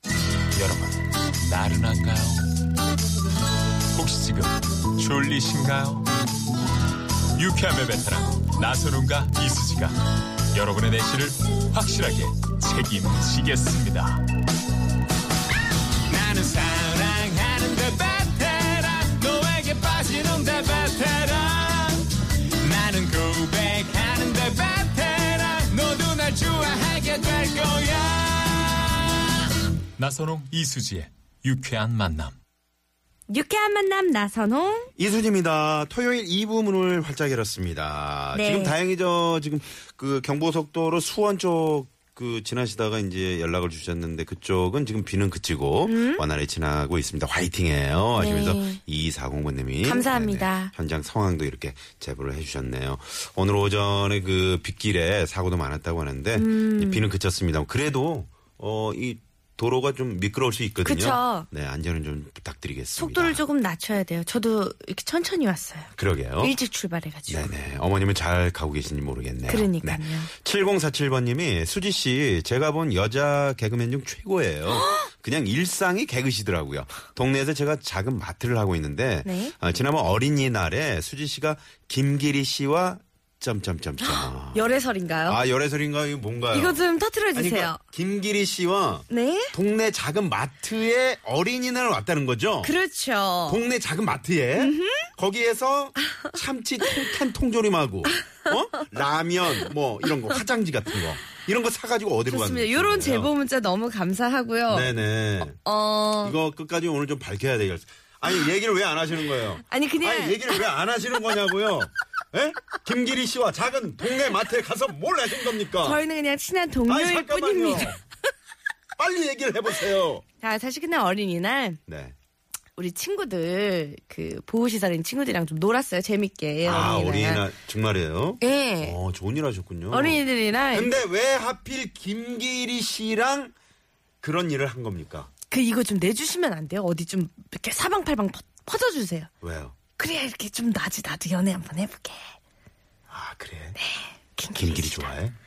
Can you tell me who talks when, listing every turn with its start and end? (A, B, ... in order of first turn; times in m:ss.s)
0:00.5-0:02.5 A
0:03.9-0:06.1 A
0:07.4-0:14.2 A
0:16.1-0:29.2 A
0:30.0-0:32.4 A
0:33.3-0:34.9 B
0:35.0-1:03.4 C
0:38.3-0:38.8 B
0:45.8-0:46.2 B
0:48.1-0:48.8 B
0:49.8-0:50.7 B
0:56.3-0:57.1 B
1:00.8-1:01.5 B
1:03.0-1:07.5 B
1:06.0-1:06.6 C
1:07.3-1:24.7 C
1:09.5-1:10.3 B
1:14.7-1:15.1 B
1:19.2-1:19.5 B
1:24.0-1:25.4 B
1:25.2-1:32.8 C
1:26.5-1:27.8 B
1:29.1-1:29.5 B
1:32.6-1:33.6 B
1:33.5-1:43.3 C
1:34.6-1:35.1 B
1:38.1-1:38.8 B
1:42.2-1:44.9 B
1:44.7-1:45.6 C
1:45.5-1:46.4 B
1:46.2-1:56.0 C
1:49.6-1:50.7 B
1:55.8-1:58.0 B
1:56.9-1:58.0 C
1:59.0-2:00.2 C
2:00.4-2:01.8 B
2:01.9-2:02.1 C
2:02.8-2:07.4 B
2:06.6-2:13.5 C
2:08.4-2:09.0 B
2:09.9-2:10.9 B
2:14.2-2:15.3 C
2:15.5-2:19.3 B
2:19.4-2:19.7 C
2:20.0-2:22.3 B
2:23.1-2:23.8 C
2:23.8-2:25.1 B
2:24.5-2:25.3 C